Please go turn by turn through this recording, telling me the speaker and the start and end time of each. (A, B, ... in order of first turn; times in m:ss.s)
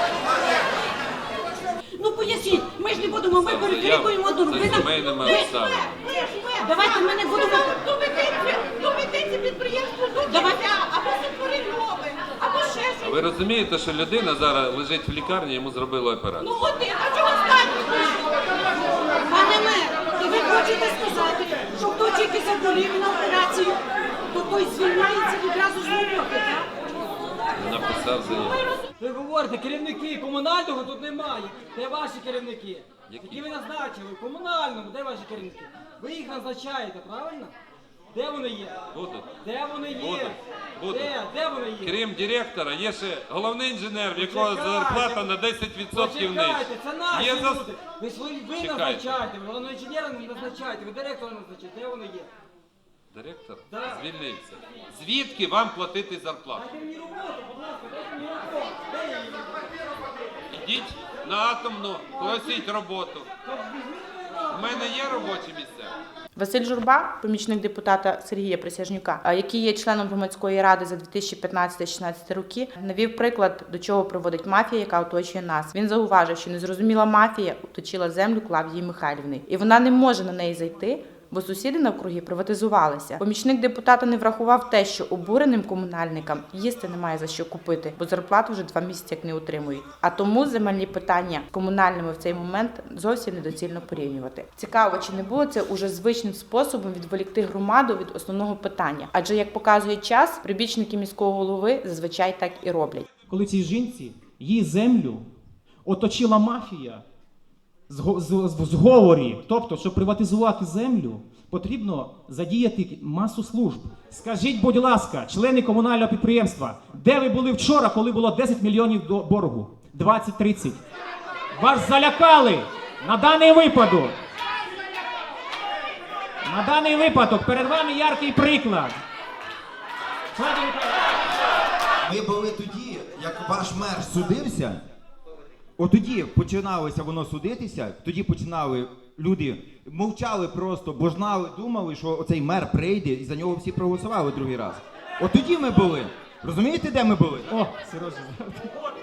0:01.9-0:05.6 A
0:03.3-0:06.2 B
0:06.3-0:13.2 A
0:13.0-0:16.5 B
0:16.4-0:18.0 A
0:19.3-0:23.8 A
0:24.3-0:26.7 A
0:27.5-0:28.6 B
0:29.0-0:37.5 C
0:33.1-0:33.5 B
0:38.1-0:38.8 C
0:38.9-0:41.2 B
0:39.4-0:41.9 C
0:41.8-0:47.8 B
0:44.1-0:45.2 C
0:45.9-0:52.3 C
0:48.3-0:49.2 B
0:53.1-0:56.6 B
0:53.7-0:54.0 C
0:56.6-0:59.6 C
1:00.5-1:03.3 B
1:03.5-1:04.1 C
1:04.5-1:05.9 B
1:06.3-1:43.1 D
1:43.3-1:45.3 E
1:45.8-1:47.0 E
1:47.9-2:00.8 E
2:01.6-2:04.2 E
2:06.4-2:09.0 E
2:10.3-2:11.0 E
2:12.0-2:14.8 F
2:15.8-2:27.5 F
2:27.5-2:28.7 E